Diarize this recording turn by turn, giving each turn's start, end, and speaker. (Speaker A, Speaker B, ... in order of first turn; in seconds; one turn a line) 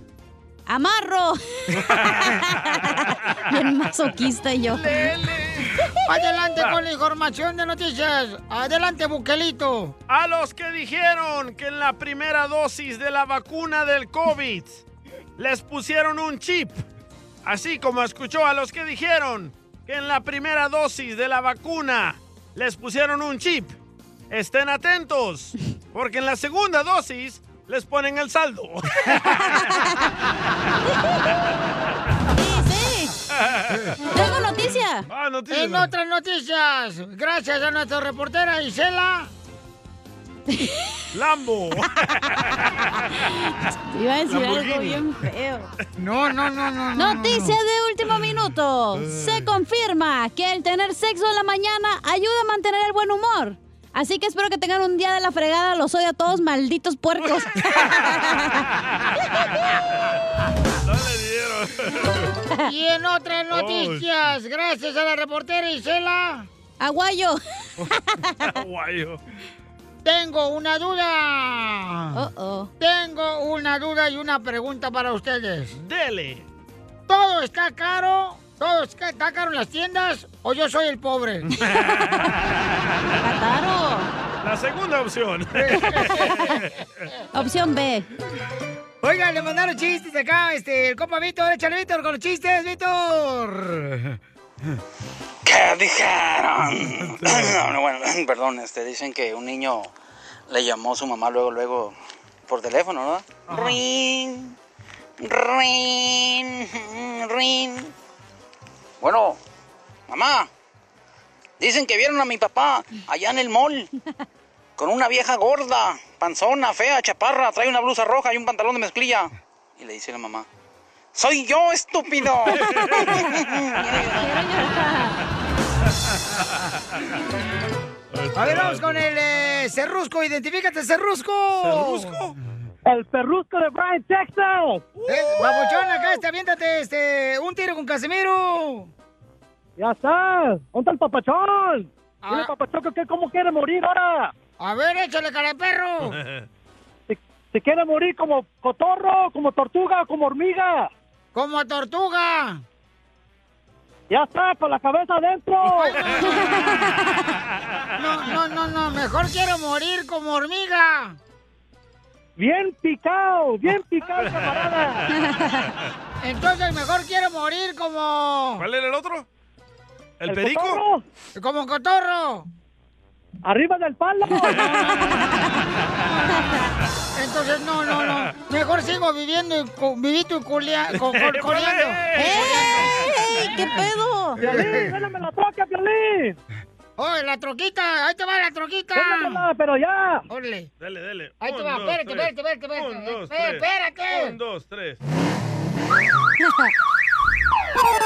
Speaker A: 0.7-5.0
Speaker B: 2.1-2.3
Speaker B: 4.7-5.9
Speaker C: 6.0-9.9
Speaker B: 10.1-14.8
Speaker B: 15.4-16.8
Speaker B: 17.4-23.8
Speaker B: 24.3-29.4
Speaker A: 29.6-30.1
Speaker A: 32.4-33.1
Speaker B: 33.3-34.0
Speaker A: 34.1-35.1
Speaker B: 35.1-35.9
Speaker C: 35.5-39.3
Speaker A: 40.5-41.0
Speaker B: 41.1-42.9
Speaker A: 43.3-45.7
Speaker B: 44.3-45.0
Speaker C: 46.0-47.6
Speaker A: 47.0-58.6
Speaker B: 49.0-49.3
Speaker B: 57.2-58.0
Speaker B: 60.8-62.3
Speaker C: 62.6-66.5
Speaker B: 63.5-64.0
Speaker A: 66.8-68.5
Speaker B: 68.5-69.2
Speaker C: 70.0-72.2
Speaker A: 72.1-72.7
Speaker C: 72.8-75.8
Speaker B: 75.8-76.4
Speaker C: 77.1-81.5
Speaker B: 81.5-82.6
Speaker A: 83.2-84.1
Speaker B: 84.4-86.7
Speaker C: 85.5-86.6
Speaker A: 87.3-88.1
Speaker C: 89.0-94.0
Speaker D: 95.4-99.9
Speaker B: 97.2-97.6
Speaker D: 100.5-101.9
Speaker D: 102.5-104.5
Speaker D: 105.2-107.9
Speaker D: 109.0-109.4
Speaker D: 110.1-110.5
Speaker D: 111.6-113.9
Speaker D: 114.8-120.4
Speaker D: 121.1-124.4
Speaker B: 122.5-123.1
Speaker A: 124.2-125.2
Speaker B: 128.1-129.1
Speaker C: 128.3-132.2
Speaker B: 131.6-132.3
Speaker E: 132.8-134.8
Speaker B: 134.9-136.2
Speaker C: 135.1-138.9
Speaker E: 139.8-144.3
Speaker C: 142.2-142.5
Speaker C: 144.6-146.1
Speaker B: 146.0-146.4
Speaker E: 147.1-150.9
Speaker C: 151.3-152.6
Speaker E: 154.1-156.0
Speaker C: 155.6-156.8
Speaker A: 156.2-157.3
Speaker C: 158.0-161.2
Speaker E: 162.4-165.0
Speaker B: 164.2-164.5
Speaker C: 166.2-168.6
Speaker B: 168.6-169.2
Speaker B: 170.2-170.8
Speaker E: 170.3-171.0
Speaker C: 171.4-172.5
Speaker E: 173.4-175.4
Speaker A: 176.4-176.6
Speaker C: 177.1-183.8
Speaker B: 178.0-178.3
Speaker B: 180.9-183.1
Speaker A: 182.2-184.4
Speaker C: 184.4-184.9
Speaker E: 184.4-186.4
Speaker C: 187.0-189.4
Speaker E: 188.9-190.2
Speaker C: 190.3-190.7
Speaker B: 190.8-195.0
Speaker C: 191.4-194.3